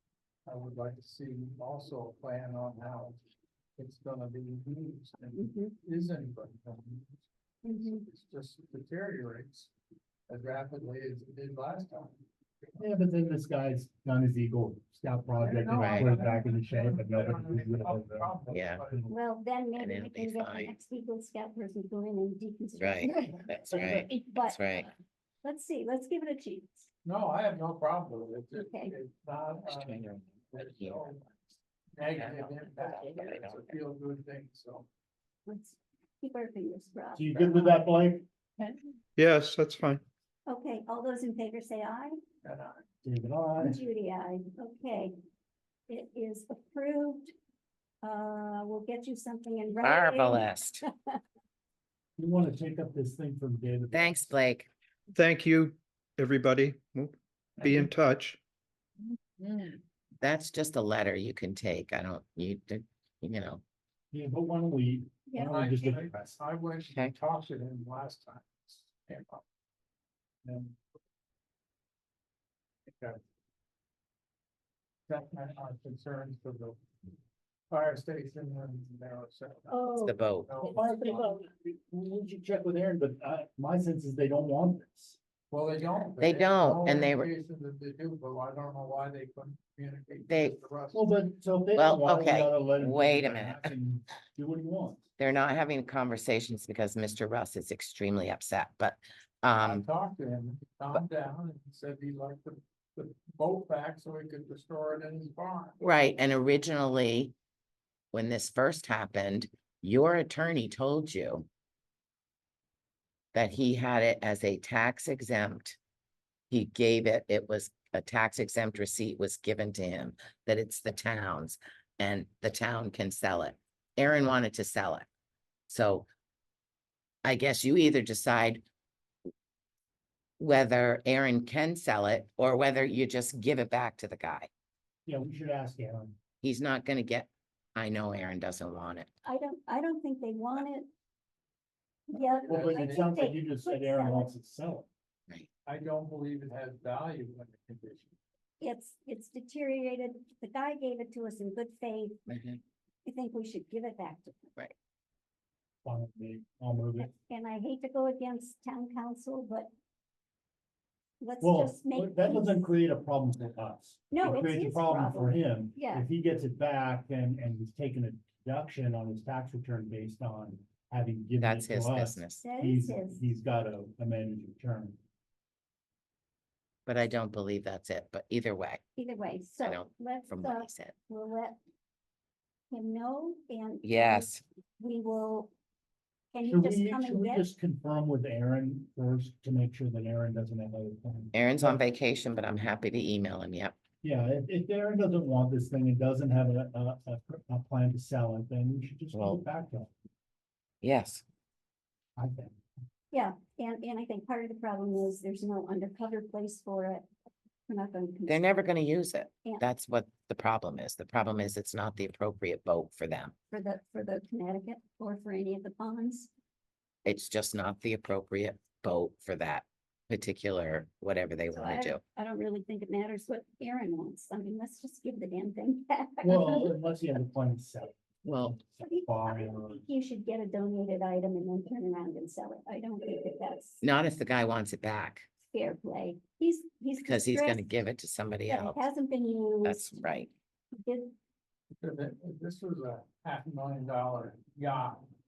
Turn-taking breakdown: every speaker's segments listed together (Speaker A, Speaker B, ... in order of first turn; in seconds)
Speaker A: 0.5-3.2, 3.8-9.7, 10.3-12.2, 15.4-19.1, 27.1-34.9, 42.4-42.9, 65.4-69.4, 70.4-70.8, 72.9-73.2, 75.1-76.8, 77.7-81.3, 85.5-91.1, 99.6-105.8, 142.3-143.2, 145.7-148.2, 241.8-245.1
Speaker B: 5.4-5.8, 7.7-8.0, 19.1-24.9, 25.4-26.9, 28.6-28.9, 35.5-37.9, 40.5-42.2, 43.6-45.1, 45.9-47.3, 48.0-51.2, 65.3-65.9, 79.7-81.2, 139.2-140.9, 142.1-144.3, 148.6-152.3, 153.1-154.5, 157.0-159.7, 161.2-162.7, 164.1-166.1, 172.4-173.2, 179.0-181.6, 182.7-185.5, 186.3-187.5, 203.1-207.1, 207.7-208.6, 213.5-216.3, 221.5-226.8, 228.8-233.8, 235.5-237.8, 238.5-239.9, 240.8-241.1
Speaker C: 12.8-18.4, 37.1-38.3, 43.0-43.8, 52.2-54.4, 64.1-66.4, 80.6-85.2, 90.9-95.0, 135.1-136.2, 142.5-144.9, 155.8-157.1, 161.4-175.0, 186.4-191.8, 194.0-199.9, 202.2-202.6, 226.2-229.8
Speaker D: 18.5-18.8, 19.8-20.7, 22.8-24.9, 29.7-31.1, 32.2-33.8, 49.8-50.9, 53.9-54.7, 59.4-63.6, 80.0-80.5, 86.2-87.3, 90.3-90.6, 91.7-93.7, 95.2-99.9, 105.8-107.3, 108.1-111.5, 113.3-115.8, 116.5-125.1, 125.7-126.1, 127.2-128.6, 130.4-134.5, 136.4-139.1, 152.3-152.6, 171.4-172.4, 176.9-178.8, 179.6-181.0, 183.8-184.4, 191.3-193.8, 199.1-199.4, 200.8-201.2, 208.3-213.3, 217.1-222.0, 228.2-228.6, 233.8-235.3, 237.0-238.8, 239.6-240.3
Speaker E: 39.2-40.0, 55.1-58.4